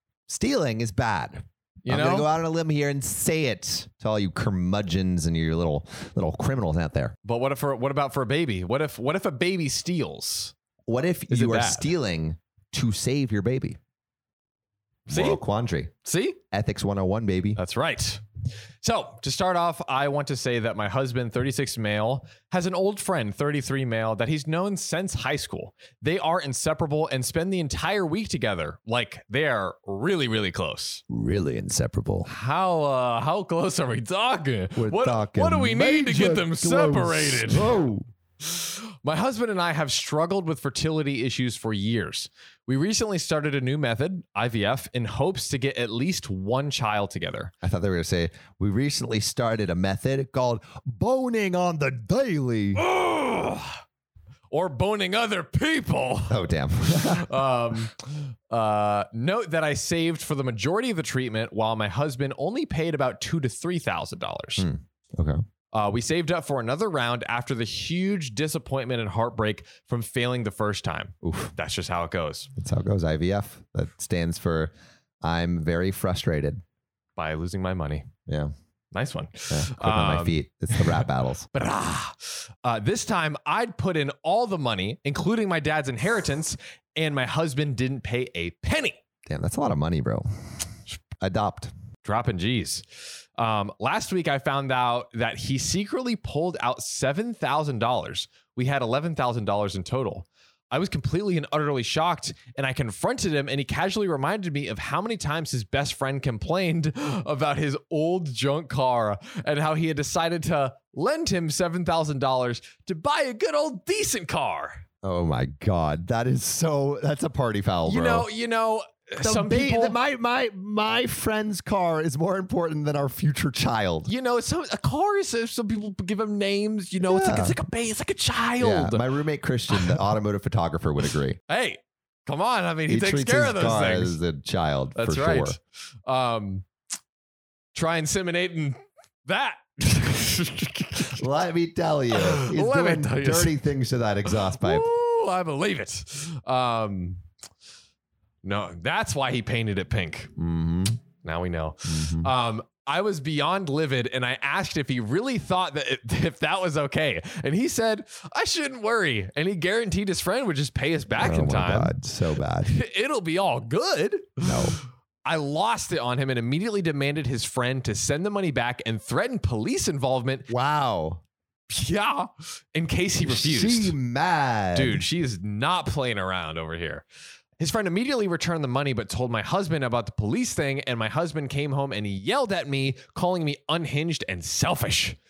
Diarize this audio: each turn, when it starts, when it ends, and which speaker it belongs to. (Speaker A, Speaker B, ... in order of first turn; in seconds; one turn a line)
Speaker A: 0.3-7.1
Speaker B: 1.8-2.3
Speaker B: 7.2-10.5
Speaker A: 10.9-13.8
Speaker B: 11.3-11.9
Speaker B: 15.1-15.4
Speaker A: 15.1-15.9
Speaker B: 16.0-16.4
Speaker A: 16.5-17.6
Speaker B: 17.6-18.2
Speaker B: 18.8-31.0
Speaker A: 31.1-32.3
Speaker B: 32.2-37.7
Speaker A: 34.8-38.0
Speaker B: 38.4-47.5
Speaker A: 47.6-52.8
Speaker B: 52.8-53.8
Speaker B: 54.5-64.7
Speaker A: 56.3-57.3
Speaker A: 64.6-65.4
Speaker B: 65.7-72.5
Speaker A: 71.2-71.5
Speaker A: 72.6-76.6
Speaker B: 77.2-78.1
Speaker B: 78.9-89.0
Speaker A: 79.5-81.5
Speaker A: 89.3-90.2
Speaker A: 91.2-91.7
Speaker B: 92.0-92.8
Speaker B: 93.4-114.8
Speaker A: 115.0-118.3
Speaker B: 117.8-119.9
Speaker A: 119.2-124.1
Speaker B: 124.1-129.1
Speaker A: 127.0-127.6
Speaker A: 128.6-131.4
Speaker B: 129.7-130.0
Speaker B: 131.5-134.2
Speaker A: 132.9-135.6
Speaker B: 134.9-136.7
Speaker B: 137.7-141.2
Speaker A: 141.1-144.9
Speaker B: 142.1-143.5
Speaker B: 144.3-147.2
Speaker B: 148.4-150.3
Speaker A: 150.4-151.0
Speaker B: 151.2-161.9
Speaker A: 151.8-152.3
Speaker A: 161.2-162.7
Speaker B: 162.7-170.5
Speaker A: 164.4-164.8
Speaker A: 170.5-171.2
Speaker B: 171.7-173.9
Speaker A: 173.2-175.0
Speaker B: 174.7-177.0
Speaker B: 177.6-185.2